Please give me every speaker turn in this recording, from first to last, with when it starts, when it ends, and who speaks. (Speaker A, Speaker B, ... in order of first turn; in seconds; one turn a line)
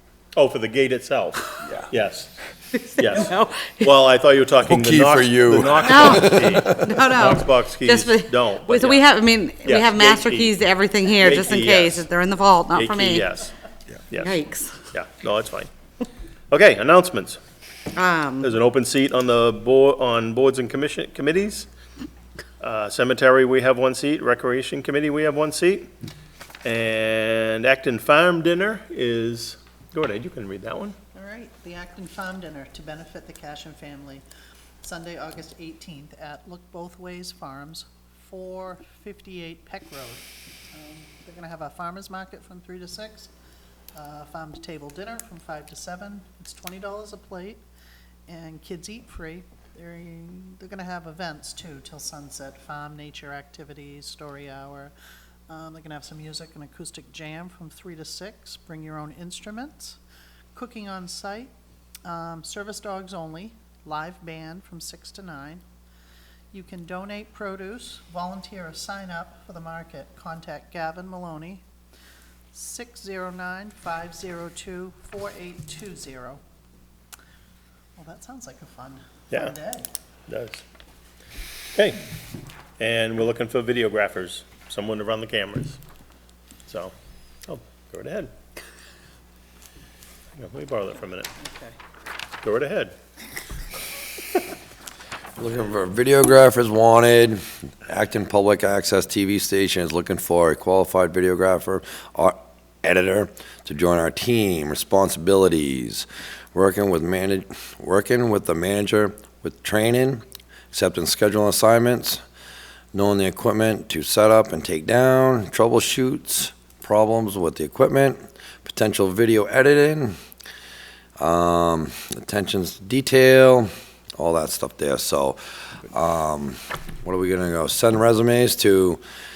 Speaker A: 0.3-2.3
Speaker B: 1.6-1.9
Speaker C: 2.8-3.9
Speaker A: 3.0-9.1
Speaker B: 4.7-7.0
Speaker C: 5.8-13.2
Speaker A: 9.6-10.6
Speaker A: 11.1-12.1
Speaker A: 12.7-13.5
Speaker A: 14.1-14.4
Speaker C: 14.2-14.8
Speaker A: 14.9-15.7
Speaker A: 16.5-17.4
Speaker C: 17.9-18.5
Speaker A: 18.4-21.7
Speaker A: 22.6-25.9
Speaker A: 26.6-30.9
Speaker D: 31.1-34.2
Speaker D: 34.8-43.3
Speaker D: 43.9-47.6
Speaker D: 48.3-54.9
Speaker D: 55.5-60.0
Speaker D: 60.5-61.5
Speaker D: 62.0-65.6
Speaker D: 66.5-71.6
Speaker D: 72.5-76.4
Speaker D: 78.0-79.9
Speaker A: 80.3-80.6
Speaker A: 81.7-82.0
Speaker A: 82.8-85.8
Speaker A: 86.7-86.9
Speaker A: 87.5-88.3
Speaker A: 90.3-91.3
Speaker A: 92.4-92.9
Speaker B: 95.4-112.2
Speaker B: 112.9-120.2
Speaker B: 121.2-129.0